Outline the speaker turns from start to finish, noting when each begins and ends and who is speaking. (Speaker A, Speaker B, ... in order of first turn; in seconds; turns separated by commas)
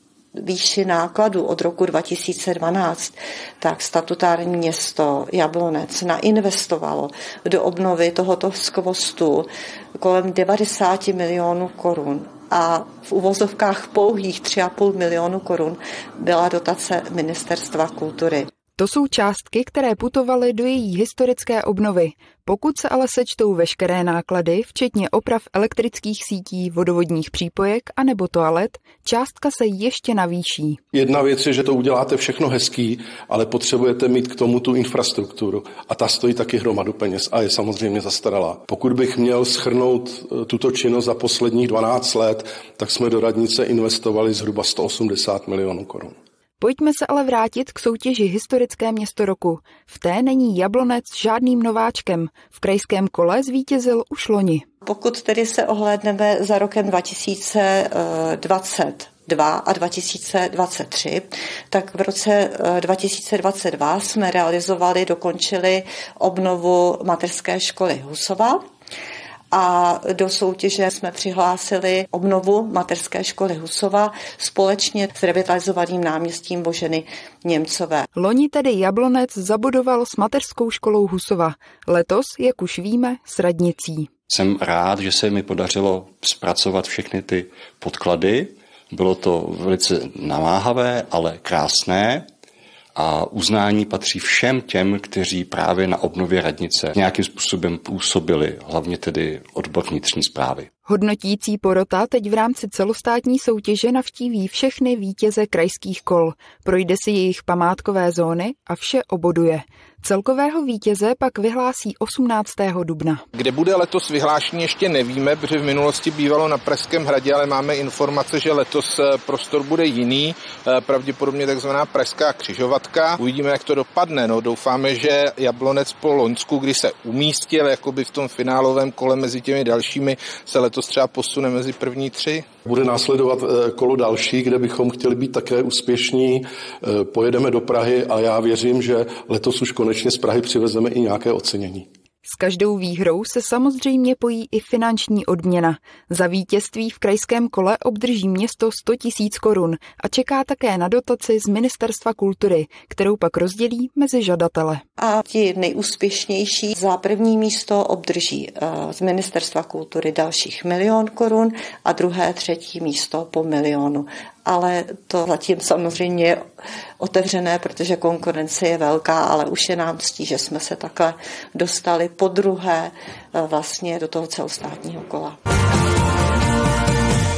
Speaker A: 0.3-18.5, Speaker B: 18.8-30.8, Speaker C: 30.9-46.1, Speaker B: 46.6-54.6, Speaker A: 54.8-68.6, Speaker A: 69.5-78.0, Speaker B: 78.1-84.1, Speaker D: 84.3-92.3, Speaker D: 93.0-100.7, Speaker B: 100.8-113.2, Speaker E: 113.3-132.4, Speaker C: 132.7-141.9, Speaker B: 142.2-154.8, Speaker A: 155.0-166.4, Speaker A: 167.0-175.3